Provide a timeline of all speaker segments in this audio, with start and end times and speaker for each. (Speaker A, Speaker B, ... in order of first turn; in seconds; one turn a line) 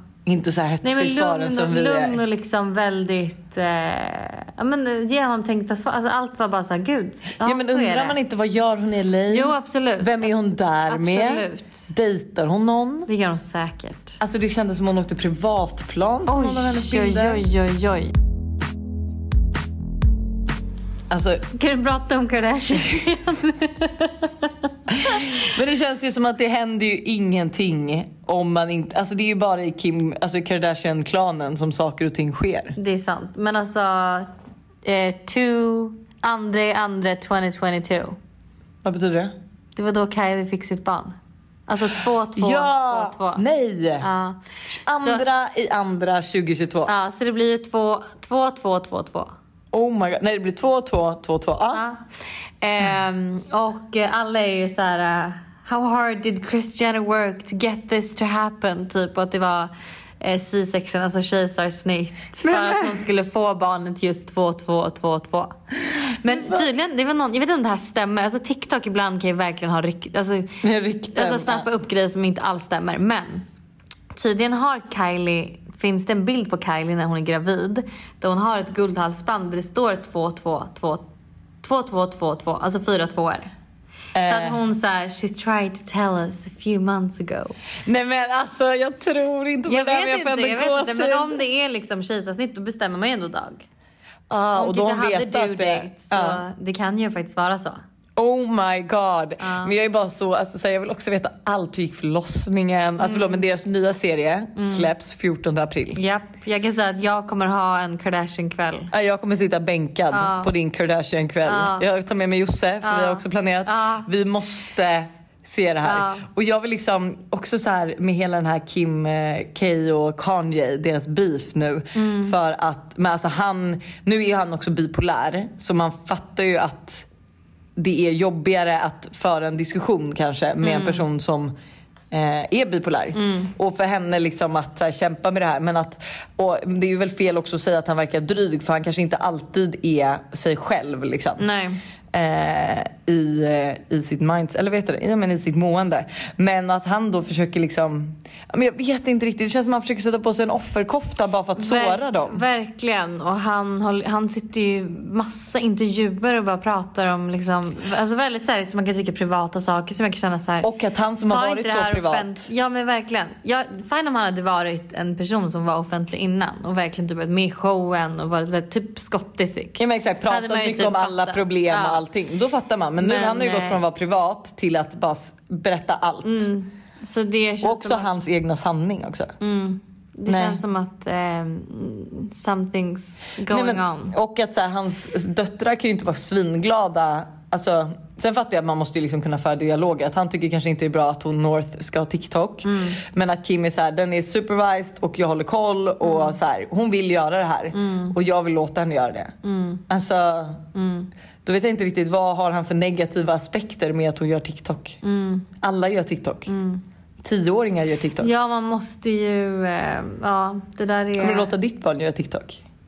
Speaker A: 0.2-2.2
Speaker B: 0.8-8.2
Speaker A: 7.4-13.1
Speaker B: 9.3-11.9
Speaker B: 13.1-14.2
Speaker A: 14.2-17.4
Speaker B: 16.3-18.1
Speaker A: 21.1-21.5
Speaker B: 21.5-24.5
Speaker A: 24.9-32.8
Speaker B: 32.8-34.3
Speaker B: 34.8-38.1
Speaker A: 38.8-39.3
Speaker B: 39.8-41.1
Speaker B: 41.7-43.4
Speaker A: 42.4-44.1
Speaker B: 44.0-44.4
Speaker A: 44.7-46.9
Speaker B: 44.9-45.2
Speaker B: 46.9-49.3
Speaker A: 49.7-51.8
Speaker B: 51.7-52.1
Speaker B: 52.6-70.5
Speaker A: 62.4-62.8
Speaker A: 66.2-66.6
Speaker A: 70.6-71.7
Speaker B: 71.1-73.4
Speaker B: 74.1-81.0
Speaker B: 81.6-83.5
Speaker A: 84.1-84.5
Speaker B: 84.2-87.5
Speaker A: 87.8-91.4
Speaker B: 89.7-93.6
Speaker A: 94.3-96.4
Speaker B: 94.5-97.8
Speaker A: 98.2-106.0
Speaker B: 99.4-99.7
Speaker B: 103.0-103.4
Speaker B: 104.6-104.9
Speaker B: 105.9-108.9
Speaker A: 108.9-127.0
Speaker B: 110.1-110.5
Speaker B: 111.5-111.9
Speaker B: 112.8-114.1
Speaker B: 115.8-116.2
Speaker B: 121.9-122.3
Speaker A: 127.8-131.5
Speaker B: 130.6-131.0
Speaker A: 132.1-141.4
Speaker B: 133.1-133.5
Speaker B: 141.4-141.8
Speaker A: 142.1-152.4
Speaker B: 151.6-160.7
Speaker A: 160.6-162.5
Speaker B: 161.3-172.0
Speaker A: 169.8-176.5
Speaker B: 173.0-173.8
Speaker B: 176.2-178.1
Speaker A: 177.6-179.3
Speaker B: 179.4-184.1
Speaker A: 180.3-180.6
Speaker A: 183.5-199.3
Speaker B: 192.6-193.0
Speaker B: 196.0-196.3
Speaker B: 197.7-198.1
Speaker B: 199.4-199.8
Speaker A: 199.9-200.7
Speaker B: 200.7-201.1
Speaker A: 201.4-205.0
Speaker B: 205.0-205.5
Speaker A: 205.6-206.5
Speaker B: 206.5-206.8
Speaker A: 207.2-208.3
Speaker B: 208.2-211.5
Speaker A: 211.2-212.6